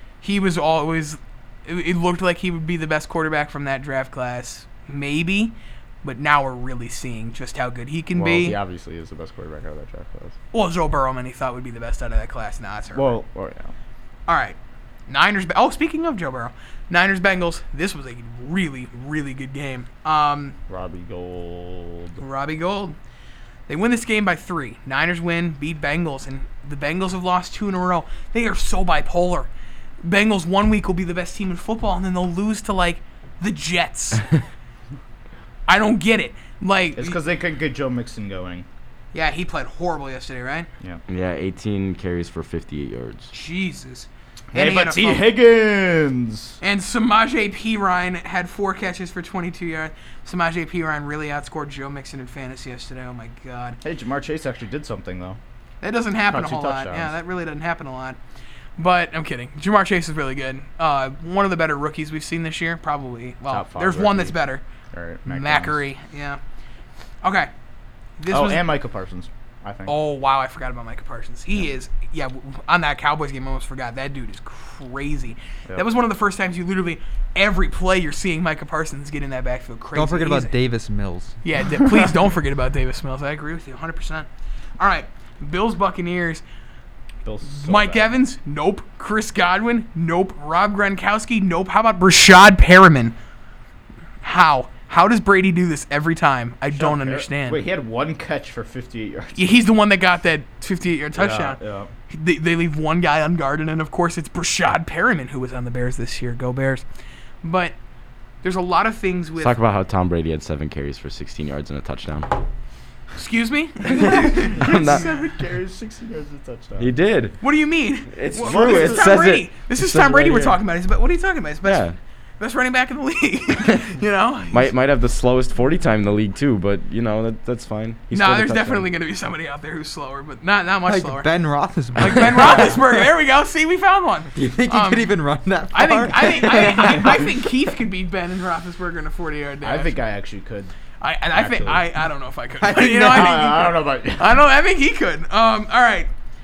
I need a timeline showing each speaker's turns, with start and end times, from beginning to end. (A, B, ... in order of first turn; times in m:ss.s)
0:00.2-0:08.6 A
0:08.1-0:10.4 B
0:10.5-0:13.2 A
0:12.9-0:13.7 B
0:14.3-0:14.6 A
0:15.1-0:20.6 A
0:20.7-0:22.2 B
0:22.2-0:23.0 A
0:23.7-0:29.5 A
0:30.0-0:34.3 A
0:35.7-0:37.2 A
0:37.0-0:38.6 B
0:39.1-0:40.7 A
0:41.1-0:43.3 C
0:43.3-0:45.3 A
0:44.5-0:46.6 B
0:46.6-0:53.8 A
0:53.8-0:55.4 B
0:55.8-0:58.2 A
0:56.3-0:57.1 B
0:58.8-1:04.6 A
1:03.5-1:04.4 B
1:04.9-1:05.8 B
1:05.3-1:06.4 A
1:07.2-1:07.5 A
1:08.2-1:08.6 A
1:08.3-1:09.9 B
1:09.9-1:20.5 A
1:19.9-1:21.4 D
1:21.4-1:24.3 A
1:24.8-1:26.4 A
1:27.2-1:28.2 B
1:27.4-1:33.1 A
1:34.2-1:37.6 A
1:36.7-1:39.6 B
1:39.3-1:41.6 A
1:41.1-1:41.9 B
1:42.1-1:46.8 A
1:47.4-1:47.7 A
1:48.4-1:49.6 A
1:49.4-1:52.3 C
1:53.2-1:55.4 A
1:53.9-1:55.1 C
1:54.0-1:56.9 B
1:56.8-1:57.4 C
1:57.4-2:01.9 A
1:58.1-2:00.6 C
1:58.4-1:59.2 B
2:01.6-2:02.0 C
2:02.4-2:04.7 A
2:04.5-2:08.9 C
2:08.1-2:11.3 A
2:10.8-2:13.1 D
2:12.0-2:15.2 A
2:14.3-2:17.3 D
2:15.7-2:20.0 A
2:19.6-2:20.7 B
2:21.0-2:26.1 A
2:21.3-2:21.8 B
2:22.6-2:23.3 D
2:22.8-2:24.3 B